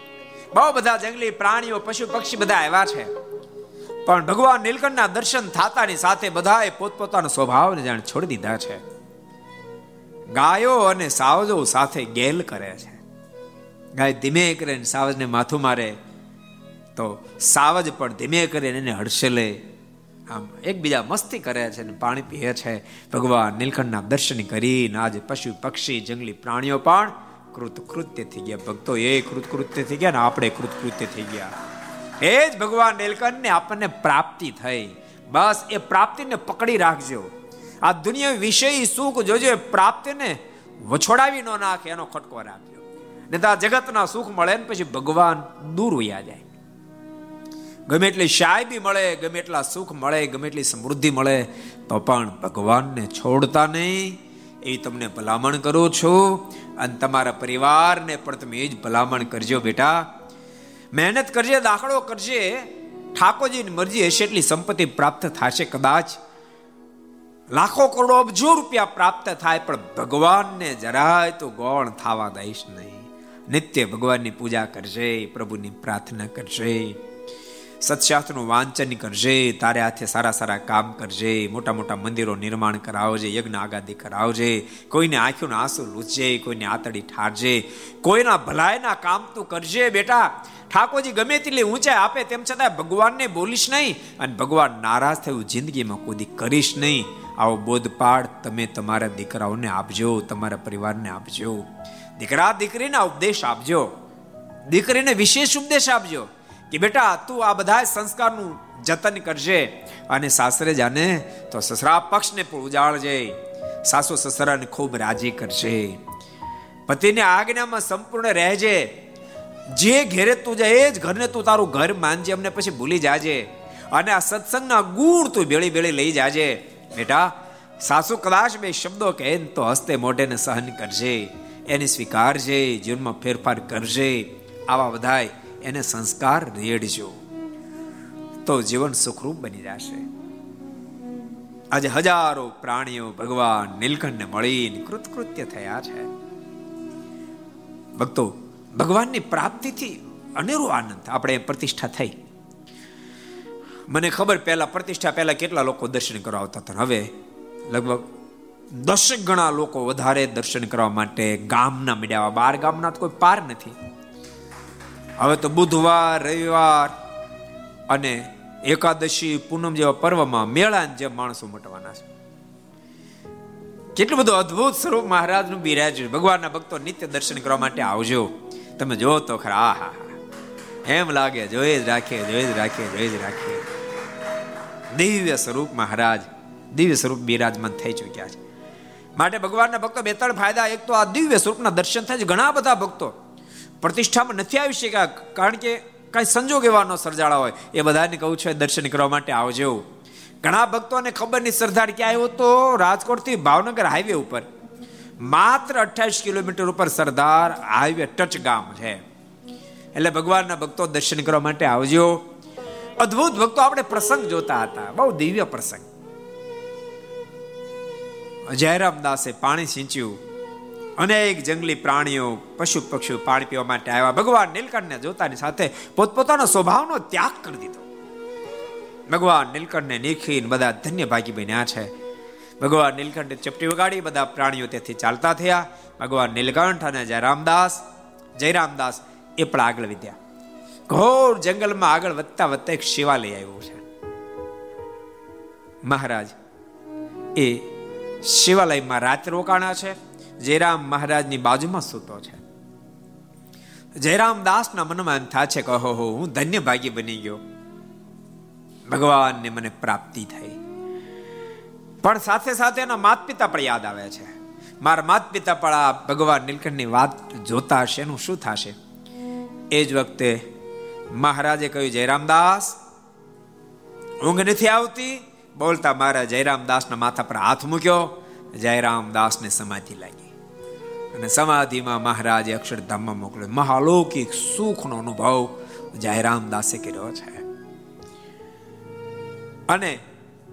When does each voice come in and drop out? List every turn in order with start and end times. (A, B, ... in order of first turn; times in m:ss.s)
0:00.5-0:03.1 A
0:04.0-0:08.8 A
0:10.3-0:13.0 A
0:14.0-0:16.0 A
0:17.0-0:19.6 A
0:20.3-0:31.5 A
0:32.2-0:37.3 A
0:37.8-0:46.4 A
0:47.9-1:00.0 A
1:00.9-1:06.2 A
1:07.5-1:17.0 A
1:17.8-1:41.6 A
1:42.2-1:43.9 A
1:44.7-1:56.0 A
1:56.9-1:58.9 A
1:59.7-2:17.2 A
2:18.4-2:20.0 A
2:21.7-2:26.1 A
2:28.0-2:32.2 A
2:33.9-2:37.1 A
2:37.7-2:38.0 A
2:38.7-2:43.8 A
2:45.2-2:46.9 A
2:47.9-2:52.0 A
2:54.0-3:00.2 A
3:00.9-3:03.6 A
3:04.9-3:08.4 A
3:09.2-3:13.1 A
3:13.8-3:19.8 A
3:20.4-3:24.5 A
3:25.2-3:29.0 A
3:29.9-3:32.2 A
3:33.0-3:35.9 A
3:38.5-3:40.2 A
3:41.0-3:47.8 A
3:49.1-3:51.9 A
3:52.6-3:57.8 A
3:58.4-4:00.2 A
4:00.9-4:03.8 A
4:05.8-4:06.4 A
4:07.4-4:07.7 A
4:08.2-4:12.4 A
4:14.0-4:17.4 A
4:18.9-4:20.6 A
4:22.0-4:28.8 A
4:29.7-4:30.4 A
4:31.1-4:32.8 A
4:34.2-4:40.3 A
4:41.1-4:47.4 A
4:49.7-4:50.0 A